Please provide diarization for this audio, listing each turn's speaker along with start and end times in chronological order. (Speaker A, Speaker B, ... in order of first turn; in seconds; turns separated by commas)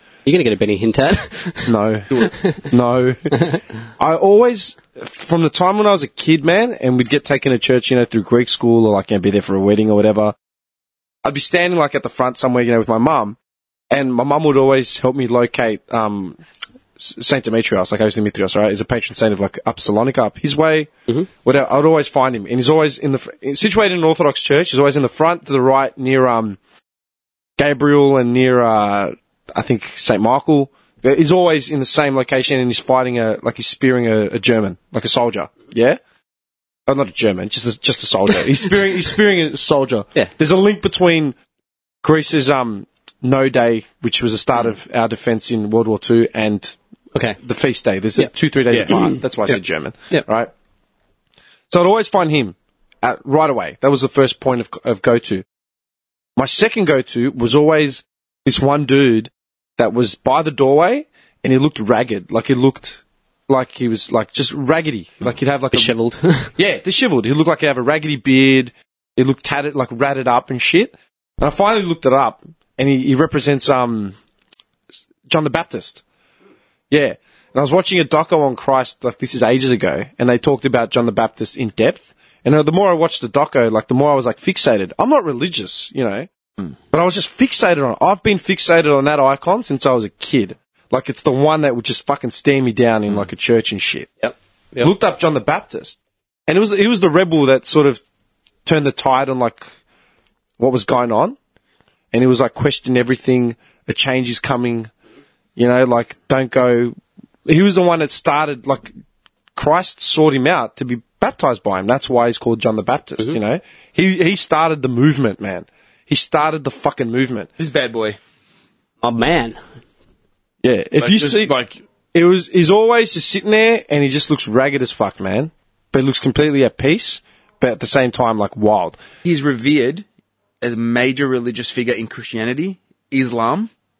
Speaker A: 0.3-2.7, Speaker B: 1.7-3.4, Speaker A: 3.4-3.6, Speaker B: 4.0-10.3, Speaker B: 11.2-13.4, Speaker B: 13.9-16.4, Speaker B: 17.0-26.6, Speaker B: 27.6-36.0, Speaker B: 36.9-41.4, Speaker B: 42.0-46.8, Speaker B: 47.4-50.5, Speaker A: 48.9-49.6, Speaker B: 51.7-55.5, Speaker B: 56.4-66.0, Speaker A: 65.7-66.5, Speaker B: 66.6-74.2, Speaker B: 75.3-76.0, Speaker B: 76.9-86.3, Speaker B: 86.9-94.3, Speaker B: 94.8-98.0, Speaker B: 98.7-99.7, Speaker B: 100.6-101.4, Speaker B: 102.1-104.9, Speaker B: 105.6-108.9, Speaker B: 109.5-117.5, Speaker C: 117.6-118.2, Speaker A: 119.0-119.6, Speaker B: 120.6-121.5, Speaker C: 121.0-121.8, Speaker B: 122.1-129.0, Speaker C: 129.2-130.1, Speaker C: 130.6-133.7